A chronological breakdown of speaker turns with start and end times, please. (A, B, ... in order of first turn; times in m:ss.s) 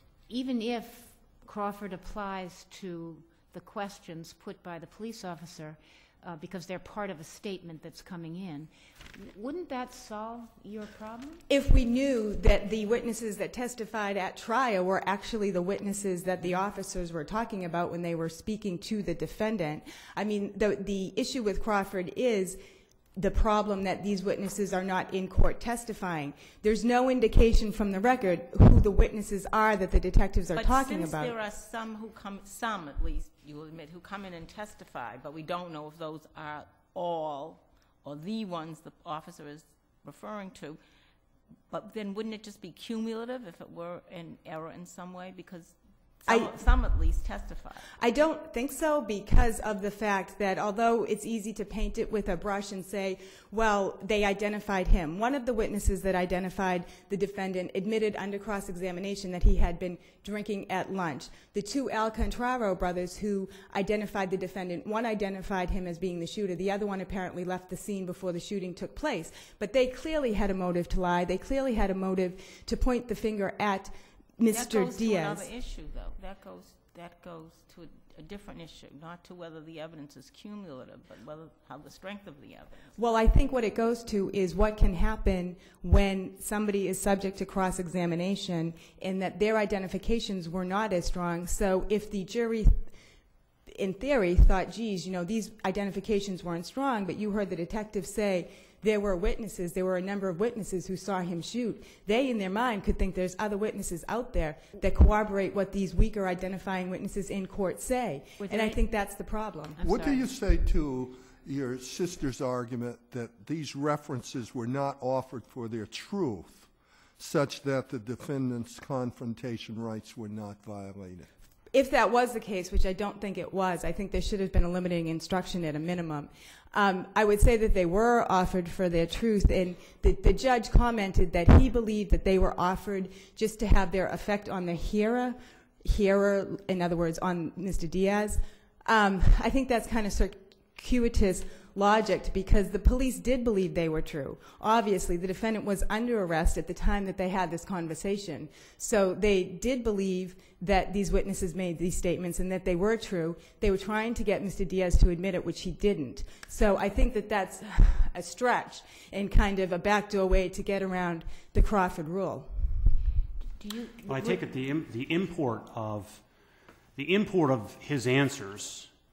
0:00.3-0:11.4 A
0:11.5-0:22.6 B
0:23.2-0:31.3 B
0:30.5-0:40.8 C
0:41.7-0:47.9 C
0:46.3-0:46.6 B
0:48.0-1:15.5 B
1:14.5-1:22.9 C
1:23.0-1:32.9 B
1:33.7-1:49.8 B
1:48.4-1:48.8 A
1:49.8-1:50.3 A
1:49.8-2:01.3 D
2:01.7-2:42.8 B
2:43.6-2:44.4 A
2:44.0-2:46.2 E
2:47.0-2:48.9 E